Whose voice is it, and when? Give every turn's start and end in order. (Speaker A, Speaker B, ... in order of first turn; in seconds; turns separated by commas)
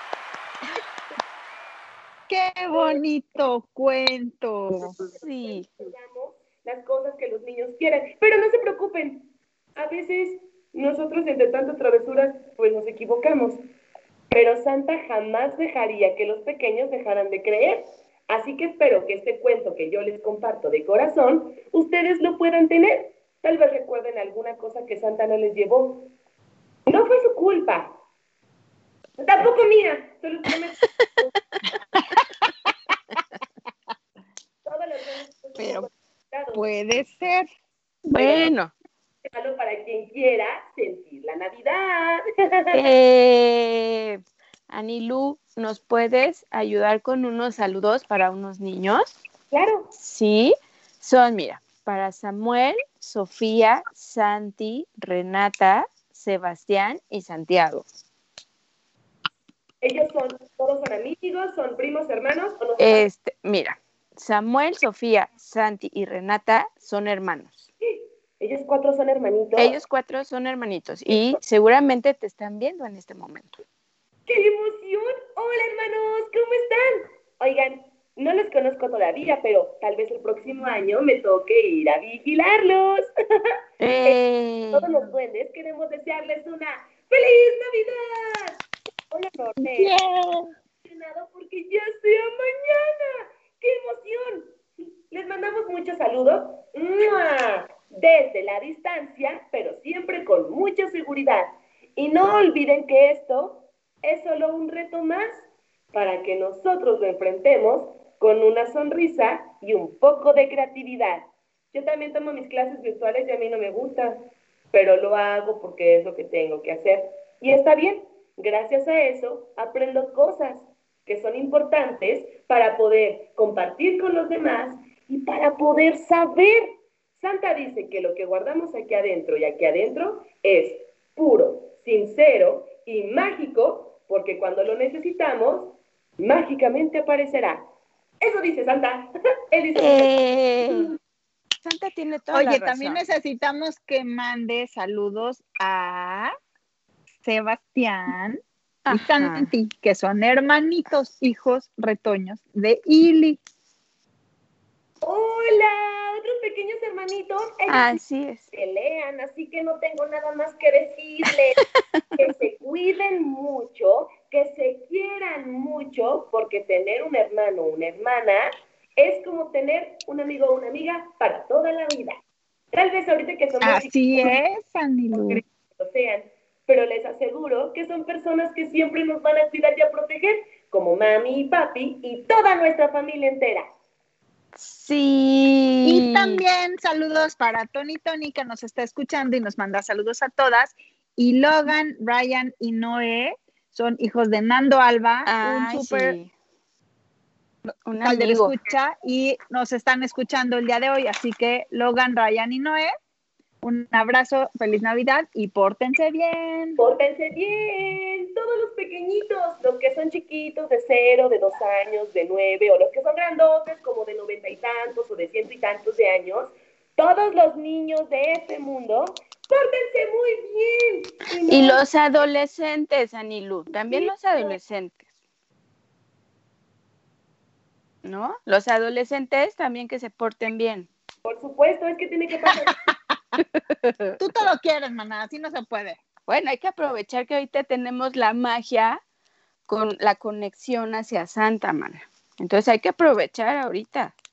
Speaker A: 2.3-4.9, Speaker B: 5.1-13.6, Speaker C: 5.1-5.7, Speaker B: 14.3-26.1, Speaker B: 26.9-27.9, Speaker B: 29.2-31.3, Speaker A: 31.9-32.2, Speaker B: 34.6-36.7, Speaker A: 35.6-35.8, Speaker A: 36.5-37.5, Speaker C: 38.0-38.7, Speaker B: 38.1-38.5, Speaker B: 39.3-42.8, Speaker C: 42.7-49.2, Speaker B: 49.5-49.9, Speaker C: 49.9-57.8, Speaker B: 59.8-63.1, Speaker C: 62.8-67.7, Speaker B: 68.4-69.7, Speaker C: 69.5-73.6, Speaker B: 71.1-71.4, Speaker B: 74.3-83.0, Speaker C: 83.8-84.9, Speaker B: 84.7-88.6, Speaker B: 89.1-89.9, Speaker A: 89.6-90.5, Speaker B: 90.8-94.5, Speaker B: 95.1-114.2, Speaker B: 114.7-137.6, Speaker B: 138.2-140.1, Speaker C: 139.8-140.9, Speaker C: 141.6-143.0, Speaker A: 142.3-146.3, Speaker A: 147.2-148.4, Speaker C: 148.8-149.5, Speaker A: 148.9-153.4, Speaker B: 155.0-158.0, Speaker C: 157.7-158.4, Speaker B: 158.5-161.6, Speaker B: 162.2-172.2, Speaker B: 172.7-174.4, Speaker A: 173.6-175.4, Speaker B: 175.1-183.7, Speaker C: 184.6-186.4, Speaker A: 185.8-196.2, Speaker C: 195.3-196.3, Speaker C: 197.9-198.5, Speaker A: 198.0-202.9, Speaker A: 203.6-206.8, Speaker B: 206.8-221.8, Speaker C: 221.5-225.1, Speaker B: 223.9-224.6, Speaker C: 228.0-230.9, Speaker B: 231.2-232.8, Speaker A: 232.9-233.4, Speaker C: 233.4-234.2, Speaker A: 234.2-236.0, Speaker C: 236.3-239.0, Speaker C: 239.7-244.1